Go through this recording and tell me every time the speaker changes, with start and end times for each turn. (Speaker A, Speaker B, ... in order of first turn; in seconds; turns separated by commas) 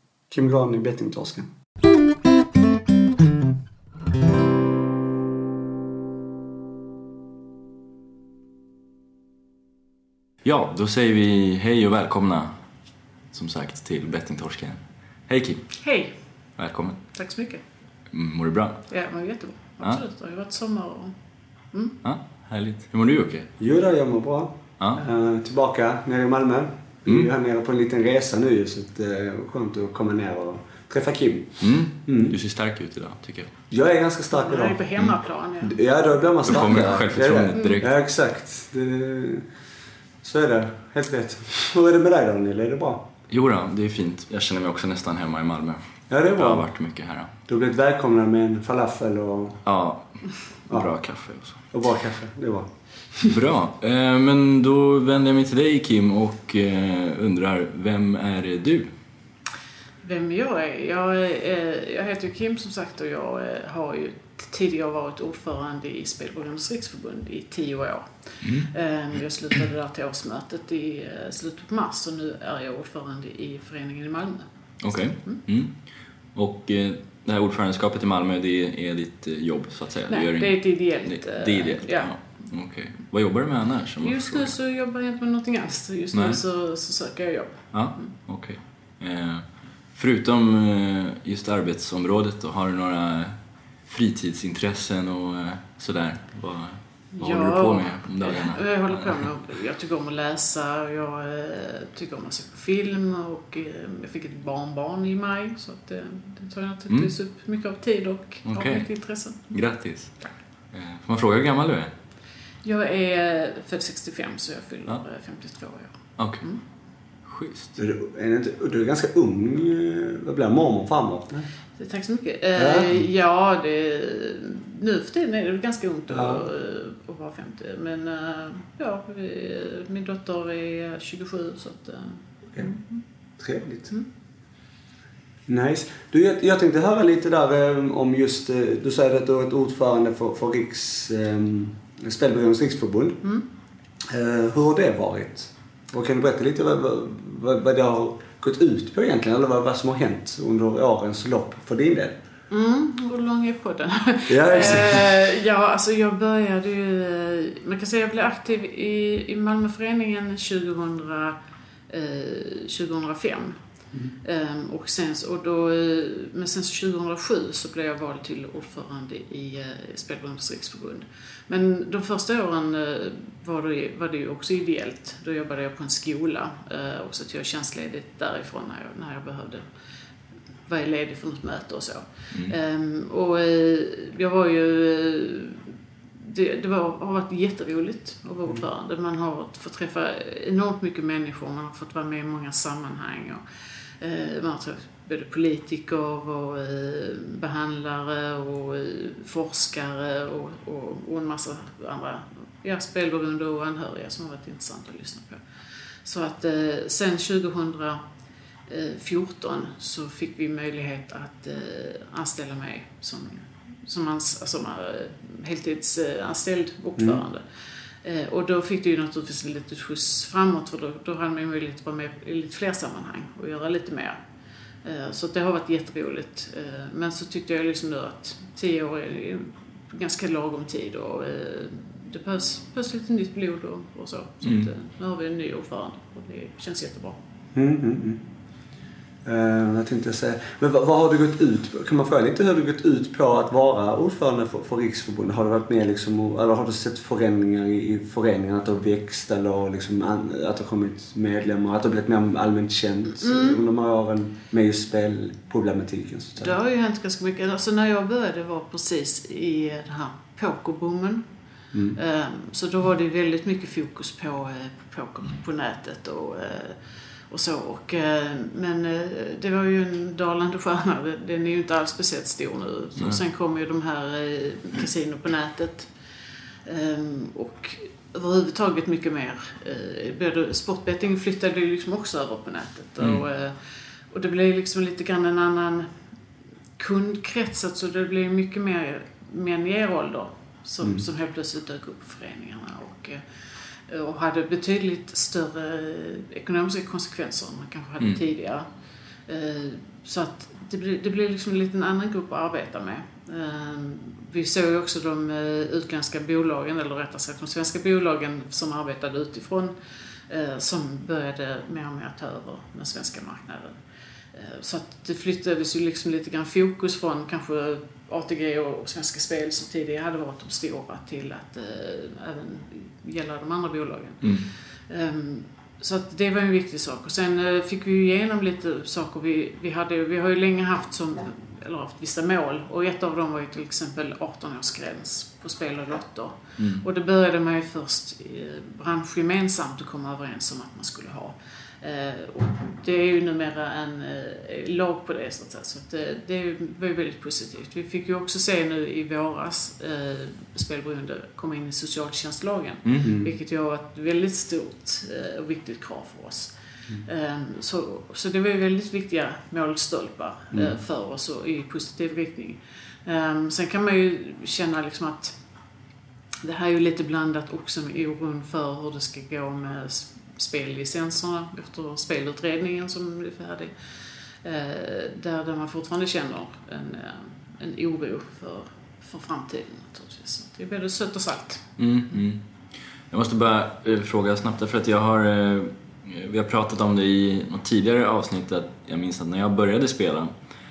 Speaker A: 0.3-1.5, Speaker B: 10.4-12.5, Speaker B: 13.3-15.7, Speaker C: 15.8-16.1, Speaker B: 16.6-17.0, Speaker C: 17.1-17.6, Speaker B: 18.1-18.9, Speaker C: 18.9-21.1, Speaker B: 22.0-23.5, Speaker A: 23.6-32.4, Speaker B: 31.6-33.5, Speaker A: 33.7-34.9, Speaker C: 34.4-35.8, Speaker A: 35.6-39.5, Speaker B: 36.5-37.9, Speaker A: 40.2-43.1, Speaker B: 43.3-45.8, Speaker A: 46.1-46.7, Speaker B: 46.3-47.3, Speaker A: 47.5-49.6, Speaker B: 49.6-51.6, Speaker A: 51.7-53.3, Speaker B: 53.2-58.9, Speaker C: 60.0-74.5, Speaker B: 68.4-68.7, Speaker B: 74.8-75.8, Speaker B: 76.3-84.5, Speaker C: 80.1-82.1, Speaker C: 84.0-88.1, Speaker B: 86.1-86.4, Speaker B: 87.7-99.3, Speaker C: 97.2-109.6, Speaker B: 108.5-108.9, Speaker B: 109.5-110.2, Speaker B: 110.7-111.9, Speaker C: 112.6-116.6, Speaker B: 116.2-116.5, Speaker B: 117.3-117.8, Speaker A: 117.8-121.5, Speaker C: 121.8-133.0, Speaker A: 122.6-123.0, Speaker A: 126.1-126.5, Speaker A: 133.4-133.9, Speaker A: 135.5-143.2, Speaker A: 144.1-152.2, Speaker C: 152.5-161.4, Speaker A: 154.3-155.1, Speaker C: 161.9-163.6, Speaker C: 164.2-179.7, Speaker C: 180.7-193.4, Speaker C: 194.0-205.4, Speaker C: 206.1-208.0, Speaker C: 208.7-217.4, Speaker A: 217.0-217.2, Speaker C: 218.0-224.2, Speaker C: 224.8-237.2, Speaker B: 234.4-234.7, Speaker A: 237.6-238.2, Speaker A: 239.2-256.6, Speaker C: 253.2-253.6, Speaker C: 256.4-261.2, Speaker A: 261.7-262.0, Speaker C: 262.0-266.8, Speaker C: 267.3-275.9, Speaker C: 276.6-283.6, Speaker C: 284.1-285.9, Speaker C: 286.8-293.2, Speaker A: 290.8-291.1, Speaker C: 293.9-298.7, Speaker C: 299.3-309.7, Speaker C: 310.3-313.8, Speaker C: 314.3-356.5, Speaker B: 324.2-324.5, Speaker B: 336.6-336.9, Speaker A: 353.0-353.3, Speaker C: 357.1-365.4, Speaker A: 360.5-360.8, Speaker C: 366.4-373.7, Speaker C: 374.4-381.7, Speaker B: 381.8-382.4, Speaker B: 383.1-390.3